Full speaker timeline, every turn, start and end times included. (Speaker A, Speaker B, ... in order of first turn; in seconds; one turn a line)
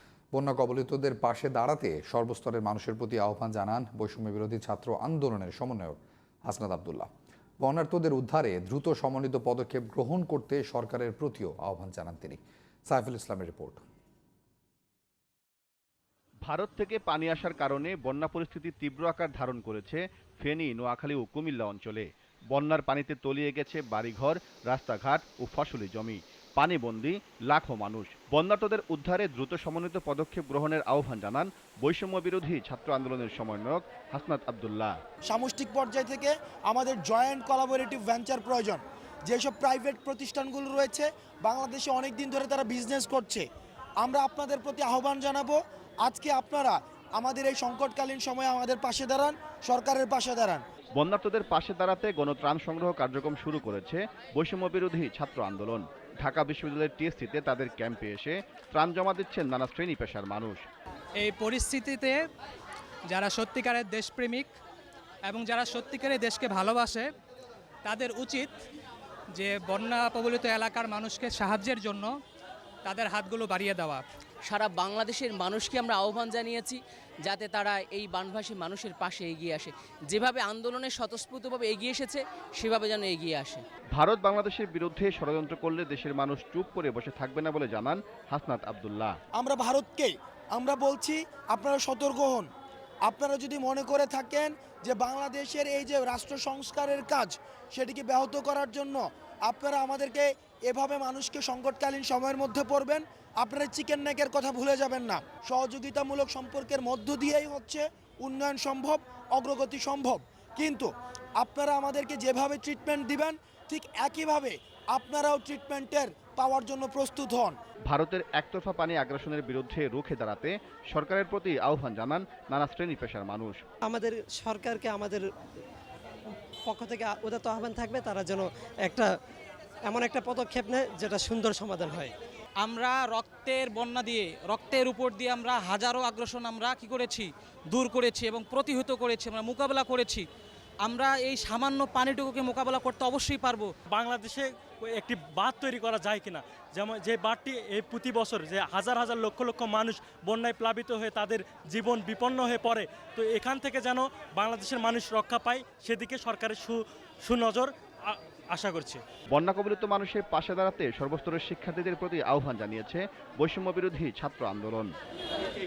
Speaker A: 0.3-7.1
Speaker A: 7.6-13.8
Speaker B: 16.4-35.0
Speaker C: 35.2-43.5
Speaker C: 44.0-50.6
Speaker B: 51.0-60.7
Speaker D: 61.2-62.2
Speaker D: 63.1-64.5
Speaker D: 65.3-67.1
Speaker D: 67.8-68.6
Speaker D: 69.3-72.1
Speaker D: 72.8-74.1
Speaker E: 74.4-83.6
Speaker B: 83.9-89.2
Speaker C: 89.3-92.5
Speaker C: 93.0-117.5
Speaker B: 117.9-123.6
Speaker F: 123.9-125.2
Speaker F: 126.7-129.1
Speaker F: 129.9-132.1
Speaker G: 132.6-140.3
Speaker G: 140.8-143.7
Speaker H: 143.9-159.0
Speaker B: 159.3-164.9